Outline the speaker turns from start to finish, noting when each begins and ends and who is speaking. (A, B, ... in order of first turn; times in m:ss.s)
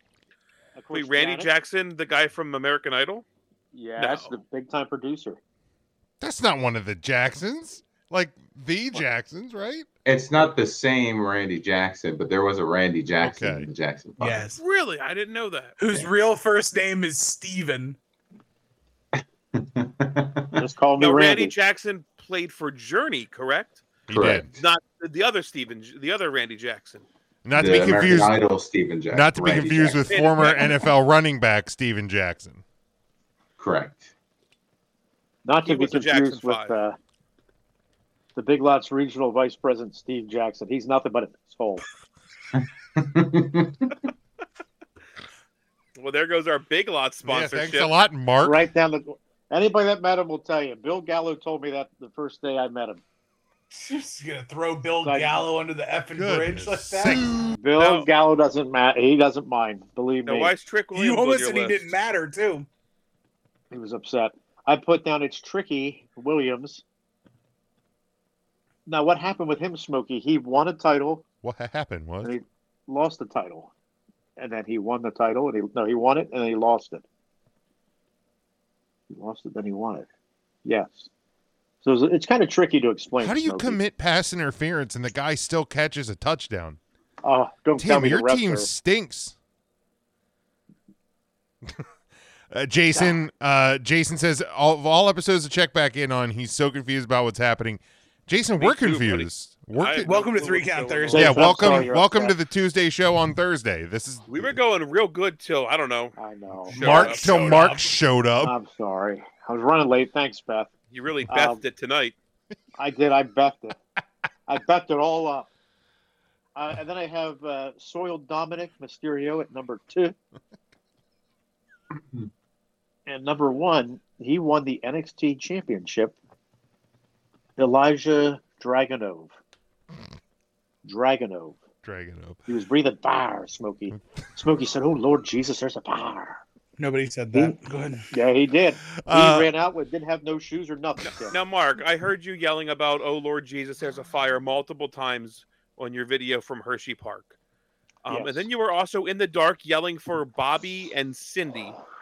0:00.7-0:01.5 A
0:00.9-0:03.2 B
0:03.7-0:05.4 A
0:04.0-0:04.4 B
0:06.2-0:09.9 C
0:10.0-0:14.4 D
0:13.2-0:13.7 C
0:14.2-0:14.6 E
0:14.6-0:15.8 B
0:15.8-0:18.0 E
0:19.2-0:20.6 D
0:20.5-0:21.5 A
0:21.0-0:23.8 B
0:24.1-0:24.5 C
0:24.1-0:24.6 D
0:24.5-0:27.0 B
0:27.4-0:28.5 C
0:27.5-0:30.3 D
0:29.1-0:32.6 C
0:30.1-0:30.9 B
0:33.6-0:34.1 D
0:35.4-0:37.0 A
0:35.6-0:36.8 B
0:38.3-0:41.8 A
0:42.5-0:44.0 D
0:46.0-0:47.9 B
0:47.2-0:48.6 C
0:48.4-0:53.0 A
0:53.7-0:57.2 E
0:55.0-0:55.4 A
0:56.1-0:57.6 C
0:57.6-1:00.5 A
0:57.8-0:58.1 B
1:00.2-1:01.9 B
1:00.9-1:02.7 E
1:03.7-1:06.8 A
1:08.9-1:11.2 A
1:11.4-1:12.4 C
1:12.2-1:13.7 A
1:14.4-1:17.0 A
1:19.1-1:20.1 A
1:20.6-1:21.1 A
1:21.8-1:23.8 A
1:23.2-1:26.8 C
1:27.2-1:28.7 A
1:27.8-1:29.3 C
1:32.5-1:40.1 C
1:38.6-1:41.4 B
1:40.0-1:41.9 E
1:41.1-1:42.4 A
1:41.1-1:44.5 C
1:44.3-1:46.2 B
1:46.2-1:47.0 A
1:46.7-1:47.8 B
1:46.7-1:48.5 C
1:46.8-1:47.9 E
1:48.4-1:50.7 A
1:50.9-1:52.2 B
1:51.3-1:51.6 A
1:52.8-1:53.8 A
1:54.5-1:55.5 A
1:56.6-2:00.1 A
2:03.1-2:06.2 A
2:07.6-2:09.3 A
2:10.8-2:11.6 A
2:11.8-2:12.4 C
2:12.5-2:16.4 A
2:16.8-2:18.1 E
2:18.1-2:21.4 A
2:19.0-2:19.5 C
2:21.0-2:27.4 B
2:28.0-2:31.8 B
2:28.1-2:28.5 A